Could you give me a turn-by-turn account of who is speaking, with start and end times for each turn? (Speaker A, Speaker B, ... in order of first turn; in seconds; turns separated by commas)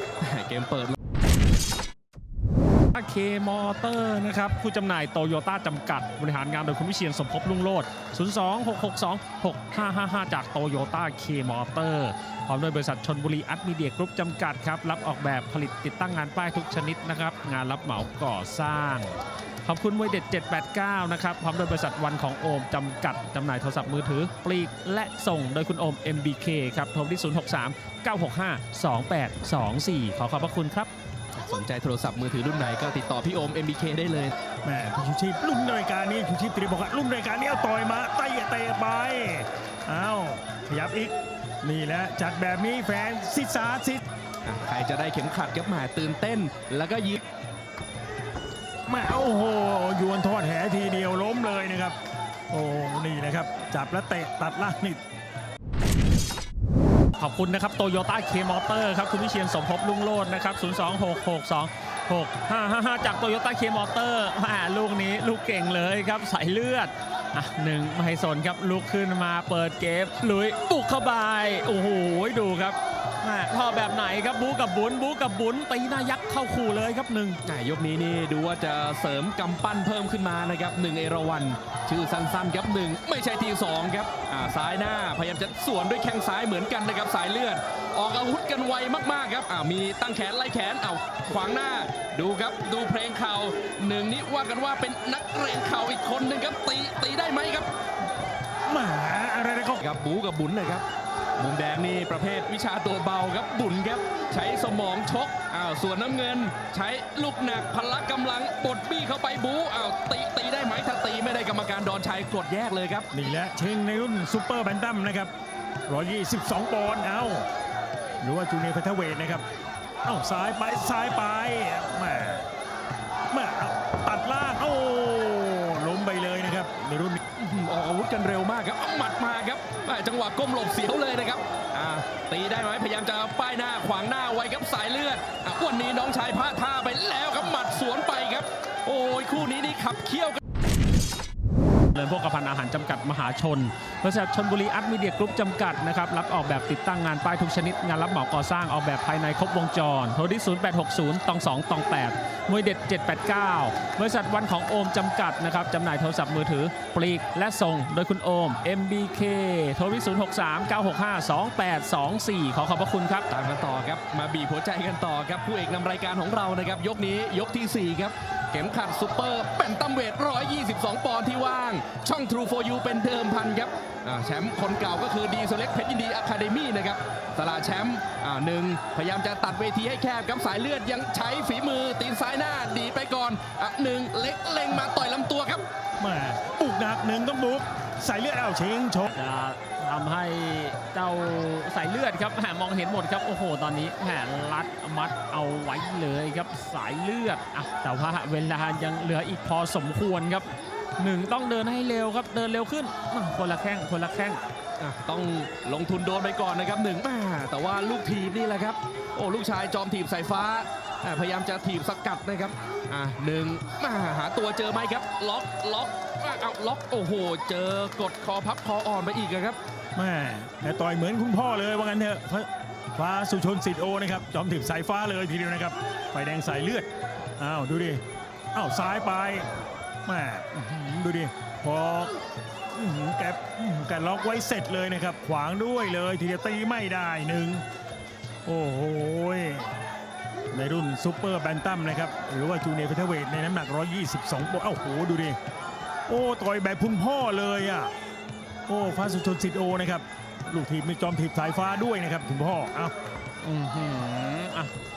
Speaker A: 0.2-0.9, Speaker B: 2.9-30.9, Speaker A: 31.4-34.3, Speaker C: 34.6-44.1, Speaker A: 44.5-47.2, Speaker C: 48.9-52.0, Speaker C: 52.5-55.0, Speaker B: 57.2-77.4, Speaker A: 77.5-97.7, Speaker C: 98.7-99.8, Speaker A: 99.8-100.8, Speaker A: 101.4-113.1, Speaker C: 113.1-115.3, Speaker C: 115.9-117.5, Speaker C: 118.2-119.5, Speaker C: 120.0-122.5, Speaker C: 123.3-127.2, Speaker A: 127.4-140.4, Speaker B: 141.9-163.3, Speaker A: 163.3-185.7, Speaker C: 186.0-189.1, Speaker B: 189.1-200.5, Speaker B: 201.0-204.4, Speaker A: 204.8-219.6, Speaker C: 219.9-228.0, Speaker C: 228.5-229.5, Speaker C: 230.1-232.2, Speaker C: 232.7-237.7, Speaker C: 238.5-239.7, Speaker C: 240.5-245.4, Speaker C: 246.1-247.9, Speaker C: 248.7-252.9, Speaker B: 253.4-254.7